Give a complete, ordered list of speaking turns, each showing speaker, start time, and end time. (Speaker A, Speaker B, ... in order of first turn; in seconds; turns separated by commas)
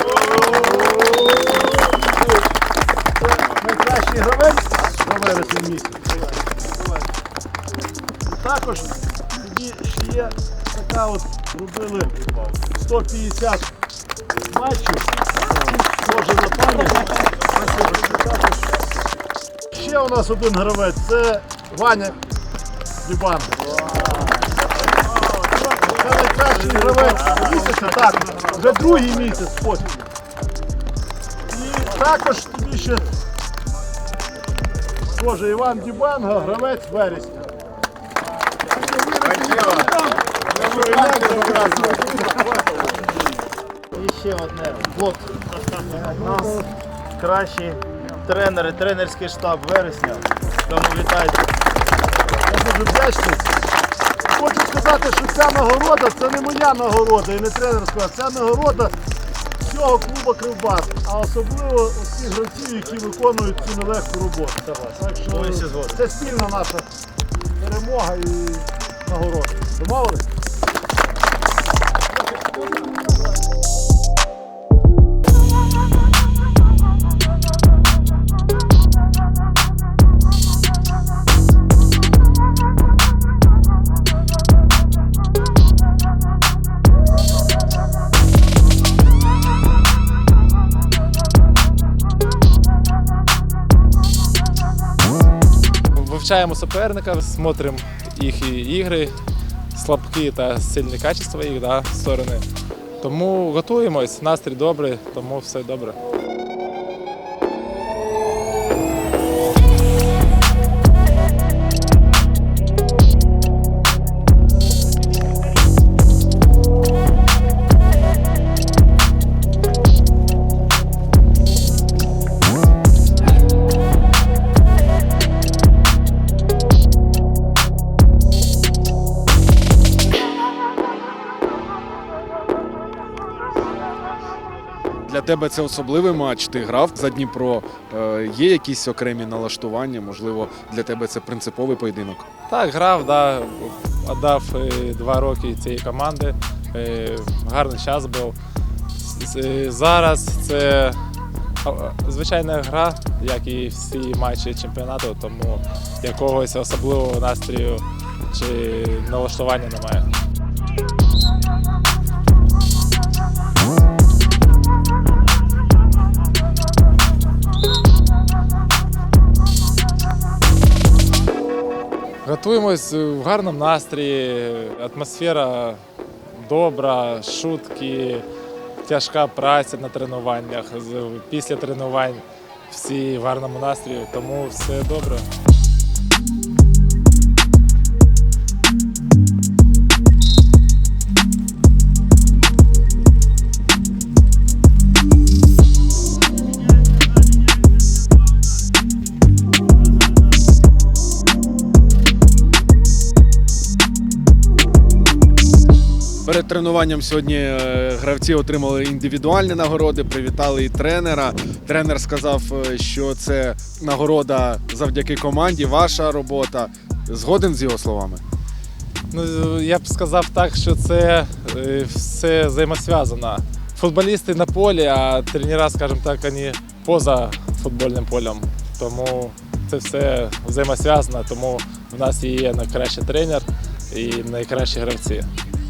Speaker A: 0.3-1.5, Speaker A: 3.2-6.0, Speaker A: 8.2-12.2, Speaker A: 12.8-13.7, Speaker A: 14.5-18.6, Speaker A: 19.7-22.2, Speaker A: 23.0-23.6, Speaker A: 25.8-29.9, Speaker B: 26.5-28.5, Speaker A: 31.5-33.1, Speaker A: 35.1-37.5, Speaker B: 39.2-42.4, Speaker A: 39.2-42.3, Speaker B: 43.9-51.5, Speaker A: 46.0-46.6, Speaker A: 52.5-53.5, Speaker A: 54.3-58.9, Speaker A: 59.6-66.8, Speaker B: 64.7-66.0, Speaker A: 67.6-70.2, Speaker C: 95.9-99.2, Speaker C: 99.7-102.5, Speaker C: 103.0-106.0, Speaker D: 135.1-142.2, Speaker C: 142.5-148.4, Speaker C: 149.0-151.0, Speaker C: 151.6-160.1, Speaker C: 172.2-175.8, Speaker C: 176.3-178.2, Speaker C: 178.8-185.3, Speaker D: 206.2-218.2, Speaker C: 219.1-235.3